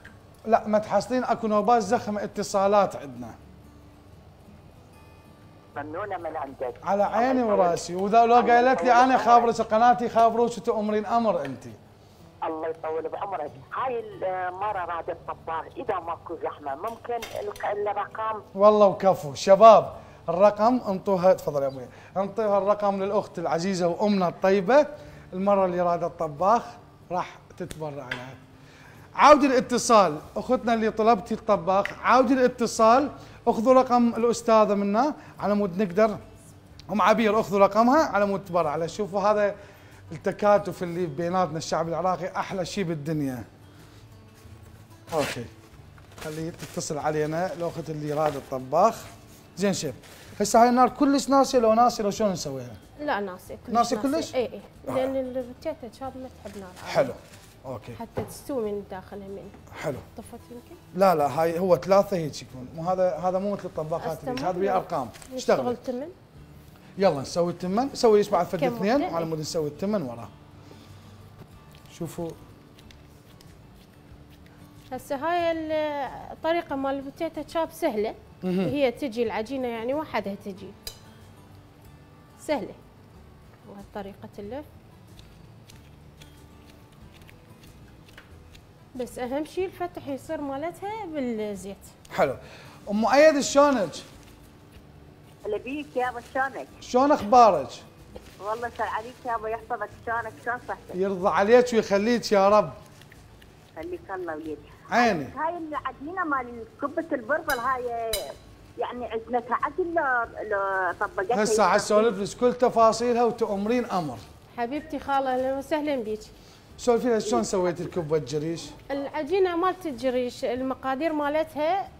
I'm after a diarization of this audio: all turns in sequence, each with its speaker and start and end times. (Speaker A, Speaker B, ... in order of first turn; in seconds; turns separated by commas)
Speaker A: 0.5-3.4, Speaker B: 5.8-7.8, Speaker A: 6.8-11.8, Speaker B: 8.4-9.5, Speaker B: 12.5-14.1, Speaker B: 14.6-15.7, Speaker B: 16.2-18.1, Speaker A: 18.5-28.4, Speaker A: 29.1-36.2, Speaker A: 36.9-39.5, Speaker A: 40.1-43.4, Speaker A: 45.1-45.5, Speaker A: 46.2-52.8, Speaker C: 53.0-57.1, Speaker A: 53.7-54.3, Speaker A: 54.9-55.1, Speaker A: 56.9-58.0, Speaker C: 57.9-59.5, Speaker A: 59.7-60.0, Speaker C: 60.1-60.8, Speaker A: 60.9-65.8, Speaker C: 64.0-66.1, Speaker A: 67.0-70.3, Speaker C: 68.4-69.3, Speaker A: 71.9-72.4, Speaker C: 74.9-80.7, Speaker A: 78.4-78.7, Speaker C: 82.4-82.8, Speaker C: 83.7-84.6, Speaker C: 88.9-91.9, Speaker A: 92.1-94.0, Speaker D: 95.5-96.7, Speaker A: 96.8-97.8, Speaker D: 98.4-100.9, Speaker A: 100.9-102.8, Speaker D: 103.8-108.0, Speaker A: 104.9-105.3, Speaker D: 108.8-112.0, Speaker A: 111.3-114.2, Speaker C: 114.5-116.3, Speaker A: 116.8-118.8, Speaker C: 118.9-121.9